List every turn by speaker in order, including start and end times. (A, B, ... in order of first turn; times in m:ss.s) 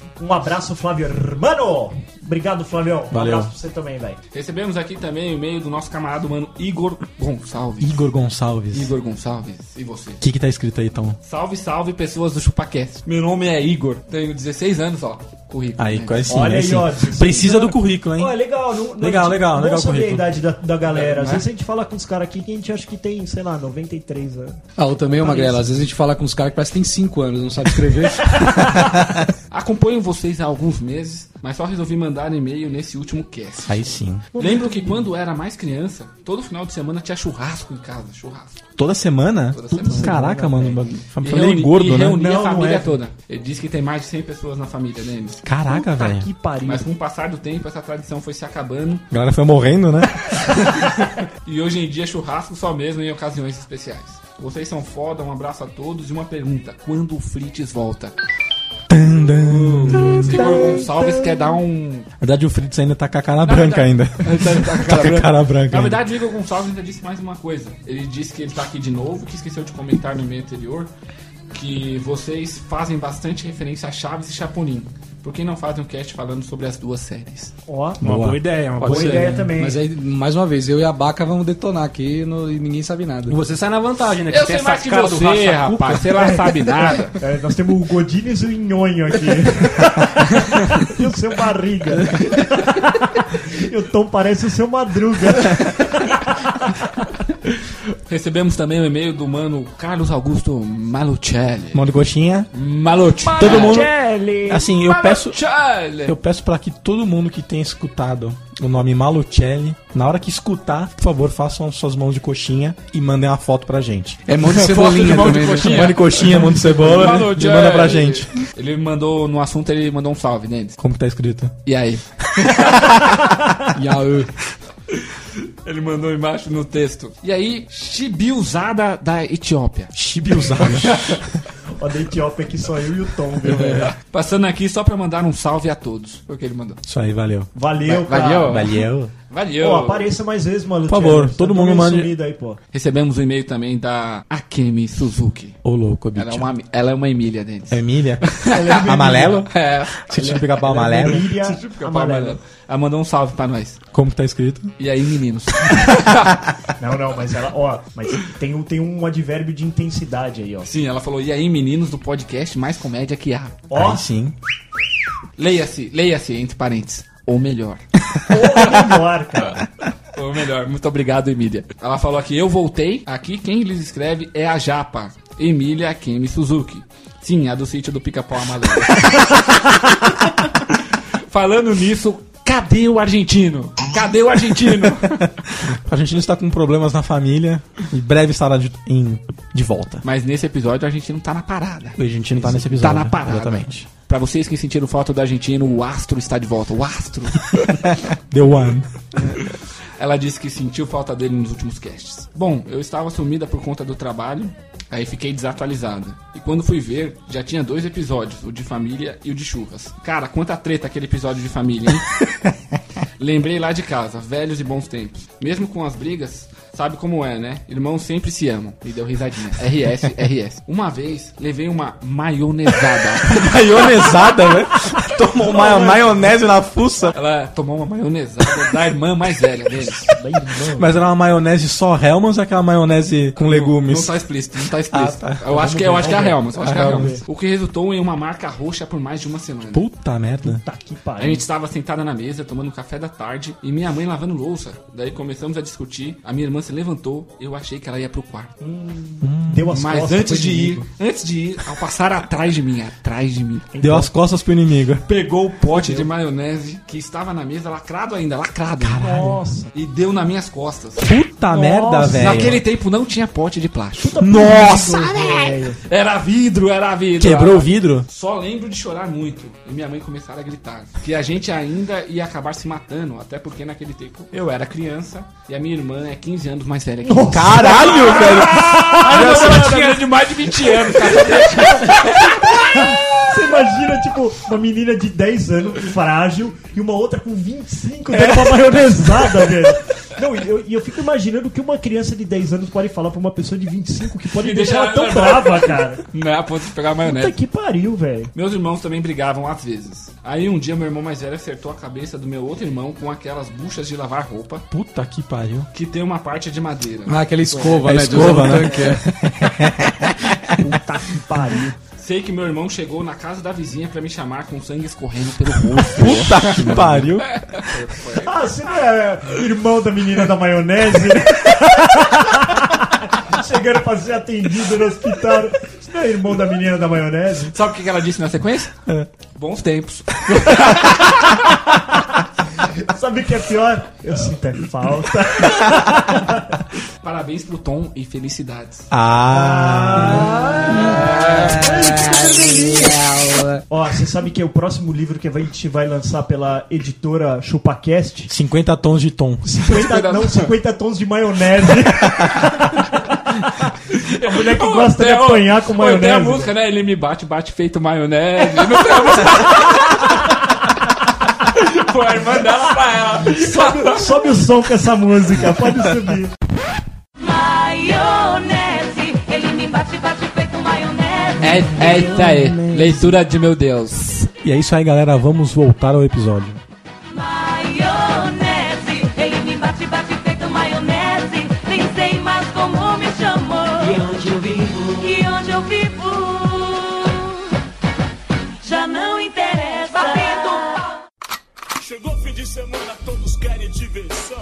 0:00.2-0:04.2 A
0:03.1-0:03.5 B
0:04.3-0:08.1 C
0:07.8-0:08.9 B
0:08.7-0:10.2 C
0:10.2-0:11.2 B
0:11.2-0:16.5 C
0:15.8-0:18.4 B
0:16.3-0:24.6 A
0:19.0-0:20.3 B
0:20.9-0:21.4 C
0:24.8-0:28.3 D
0:25.2-0:25.6 A
0:28.8-0:29.2 B
0:29.5-0:38.6 C
0:33.7-0:34.2 B
0:34.4-0:34.8 A
0:38.8-0:42.3 B
0:39.5-0:45.4 C
0:39.7-0:40.8 A
0:42.2-0:42.9 A
0:45.4-0:46.3 B
0:45.7-0:46.8 A
0:46.6-0:49.0 C
0:49.1-0:50.5 B
0:51.4-0:58.1 C
0:58.9-1:00.5 B
0:59.5-1:02.1 C
0:59.9-1:01.5 A
1:02.2-1:06.0 B
1:03.4-1:10.9 C
1:11.5-1:17.5 C
1:17.7-1:18.1 A
1:18.0-1:19.3 B
1:18.0-1:19.5 E
1:18.8-1:23.4 D
1:18.8-1:19.8 A
1:23.3-1:26.4 E
1:24.3-1:27.2 C
1:26.4-1:36.5 A
1:38.0-1:41.8 C
1:41.7-1:42.5 B
1:42.5-1:43.8 C
1:43.3-1:44.7 A
1:43.3-1:43.9 B
1:44.4-1:45.4 B
1:44.7-1:46.2 C
1:46.0-1:58.3 B
1:54.3-1:55.9 D
1:54.4-2:00.8 C
2:00.8-2:01.5 B
2:01.6-2:02.5 C
2:03.7-2:04.3 D
2:05.6-2:10.0 C
2:09.9-2:11.2 B
2:10.2-2:10.7 A
2:10.6-2:11.2 C
2:11.7-2:13.9 A
2:13.4-2:16.8 C
2:16.8-2:17.5 B
2:17.5-2:18.6 A
2:17.9-2:20.1 C
2:18.4-2:19.1 B
2:19.6-2:22.6 A
2:20.9-2:22.1 B
2:22.7-2:25.6 C
2:25.6-2:26.5 B
2:26.1-2:33.8 C
2:27.7-2:31.3 B
2:28.5-2:29.4 A
2:30.2-2:32.4 A
2:33.9-2:34.7 B
2:34.8-2:36.4 C
2:36.8-2:40.7 A
2:40.6-2:43.6 C
2:43.7-2:44.0 A
2:43.7-2:44.3 B
2:45.4-2:47.8 C
2:48.3-2:49.6 A
2:50.1-2:59.9 C
3:01.3-3:05.3 C
3:05.2-3:10.0 B
3:10.0-3:17.8 C
3:12.0-3:13.9 B
3:18.3-3:19.4 B
3:20.0-3:32.2 C
3:33.2-3:44.0 C
3:43.2-3:47.2 B
3:45.4-3:46.1 A
3:47.1-3:50.1 C
3:50.1-3:50.9 A
3:50.7-3:54.2 B
3:53.4-3:59.8 C
3:54.9-3:57.2 B
3:56.1-3:57.2 A
3:59.7-4:00.6 B
4:00.4-4:01.4 A
4:01.2-4:08.6 C
4:08.6-4:10.8 A
4:09.2-4:10.8 B
4:09.7-4:13.7 C
4:13.7-4:14.1 A
4:13.8-4:15.0 B
4:15.1-4:21.1 C
4:15.6-4:16.1 A
4:18.9-4:19.3 B
4:18.9-4:19.7 A
4:21.0-4:22.6 B
4:21.5-4:22.6 A
4:22.0-4:24.3 C
4:24.0-4:25.8 A
4:24.2-4:25.2 B
4:24.9-4:42.9 C
4:27.2-4:28.0 B
4:37.0-4:40.0 A
4:37.1-4:39.7 B
4:41.0-4:56.0 A
4:48.1-4:49.6 C
4:54.4-4:57.4 C
4:57.0-4:58.3 A
4:58.3-5:04.6 C
5:04.7-5:05.7 B
5:05.7-5:08.9 C
5:07.0-5:09.1 D
5:07.8-5:10.5 B
5:10.6-5:11.8 A
5:12.0-5:18.5 C
5:15.9-5:17.4 B
5:18.1-5:27.5 A
5:27.5-5:28.8 C
5:29.3-5:31.4 C
5:32.8-5:36.6 A
5:37.0-5:38.9 C
5:38.9-5:41.0 B
5:39.3-5:42.9 A
5:40.7-5:42.8 C
5:42.4-5:42.9 D
5:43.7-5:48.3 A
5:48.3-5:49.5 B
5:49.4-5:52.9 A
5:49.6-5:50.5 C
5:54.0-6:00.3 C
5:54.2-5:56.5 A
6:01.4-6:04.3 C
6:03.2-6:06.3 A
6:07.2-6:11.6 F
6:11.4-6:13.2 B
6:11.4-6:14.3 C
6:14.4-6:16.6 B
6:17.1-6:27.3 F
6:28.6-6:30.8 F